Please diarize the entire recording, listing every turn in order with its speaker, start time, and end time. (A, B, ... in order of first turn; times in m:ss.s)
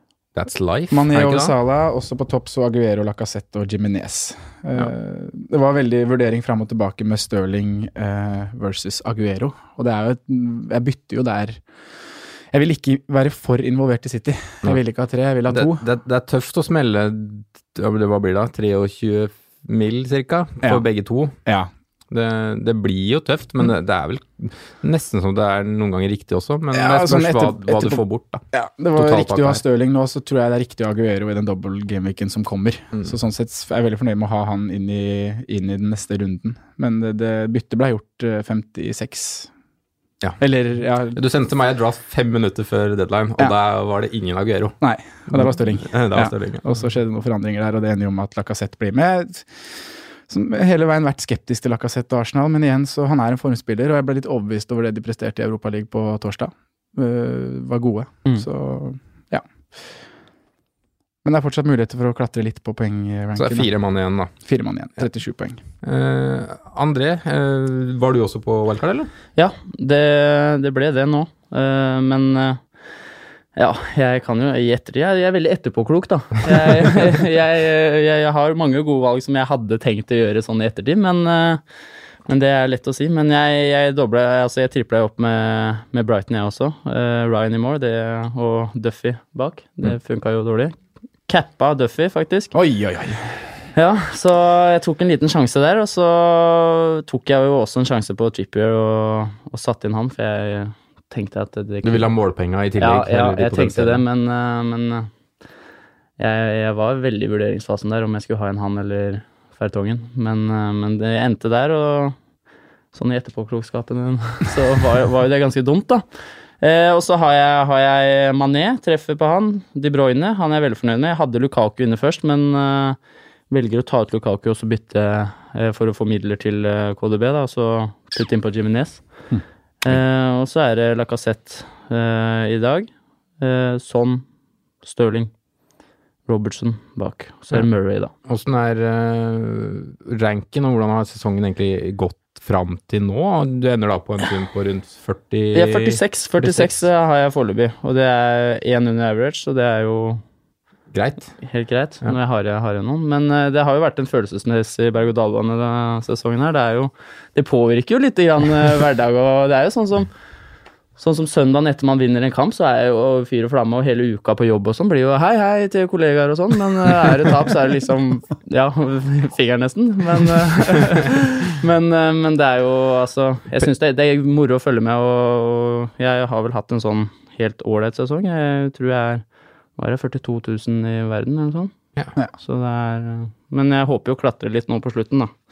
0:00.3-0:01.5 A
0:00.9-0:11.6 B
0:12.5-0:15.8 B
0:15.5-0:21.3 A
0:21.4-0:21.7 B
0:22.1-0:29.6 A
0:26.7-0:28.0 B
0:28.5-0:39.5 B
0:40.4-0:41.2 B
0:41.1-0:44.8 A
0:44.8-0:49.7 B
0:45.3-0:46.6 A
0:50.3-0:59.4 B
1:01.2-1:03.7 B
1:03.4-1:04.3 A
1:04.3-1:05.6 B
1:05.8-1:09.1 A
1:09.4-1:12.6 C
1:13.6-1:21.6 C
1:22.3-1:32.5 C
1:32.5-1:33.3 B
1:33.7-1:42.1 C
1:41.8-1:44.0 A
1:42.8-1:45.1 C
1:46.2-1:52.1 C
1:52.9-1:56.0 C
1:56.6-2:03.0 C
2:03.5-2:09.0 C
2:09.8-2:12.9 C
2:13.4-2:14.2 C
2:14.8-2:15.3 C
2:16.3-2:18.1 C
2:18.2-2:26.8 A
2:25.5-2:30.2 C
2:30.9-2:31.3 A
2:31.4-2:40.1 C
2:41.0-2:59.2 C
2:59.8-3:01.7 C
3:02.4-3:05.3 C